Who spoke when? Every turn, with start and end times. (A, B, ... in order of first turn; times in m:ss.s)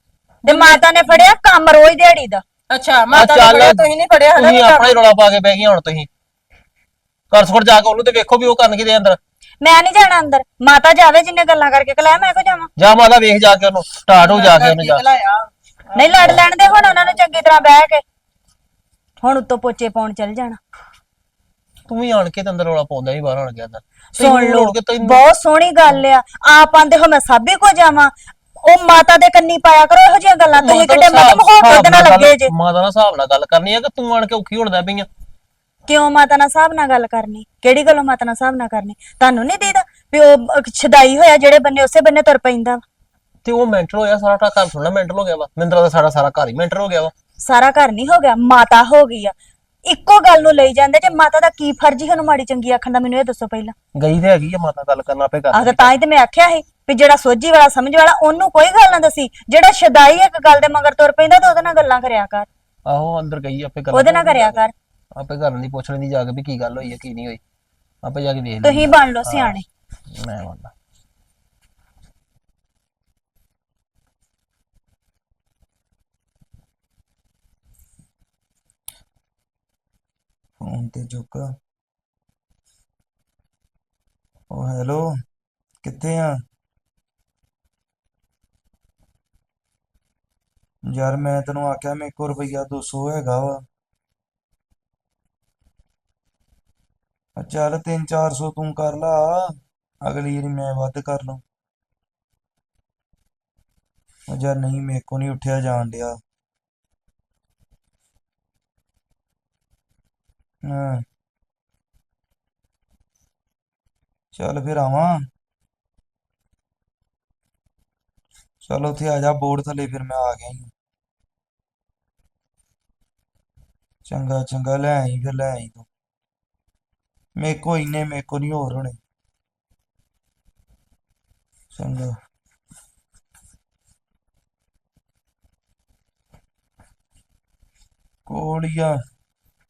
0:00.4-0:01.2 A
0:00.5-0:02.4 B
0:02.7-0:04.9 A
0:03.1-0:03.8 C
0:04.4-0:06.1 C
0:07.3-0:09.2 C
0:09.6-0:12.7 B
0:12.8-0:15.0 C
0:14.2-0:17.0 A
0:16.0-0:18.0 B
0:19.2-0:20.6 B
0:21.9-0:25.2 C
0:24.2-0:28.1 B
0:28.6-0:32.5 B
0:30.6-0:35.1 C
0:35.9-0:42.8 B
0:43.4-0:47.1 C
0:47.4-0:49.3 B
0:49.9-0:53.7 B
0:54.0-0:55.9 C
0:55.5-1:02.5 B
1:02.9-1:04.6 C
1:03.9-1:04.7 B
1:05.2-1:07.4 C
1:08.0-1:09.5 C
1:08.6-1:09.6 B
1:10.1-1:10.7 C
1:20.6-1:21.5 D
1:24.5-1:25.1 D
1:25.8-1:26.4 D
1:30.9-1:33.6 D
1:37.4-1:41.4 D
1:44.3-1:46.2 D
1:50.6-1:51.0 D
1:54.3-1:55.2 D
1:58.6-2:00.7 D
2:04.0-2:05.8 D
2:07.4-2:09.0 D
2:11.7-2:12.2 D
2:18.3-2:19.0 D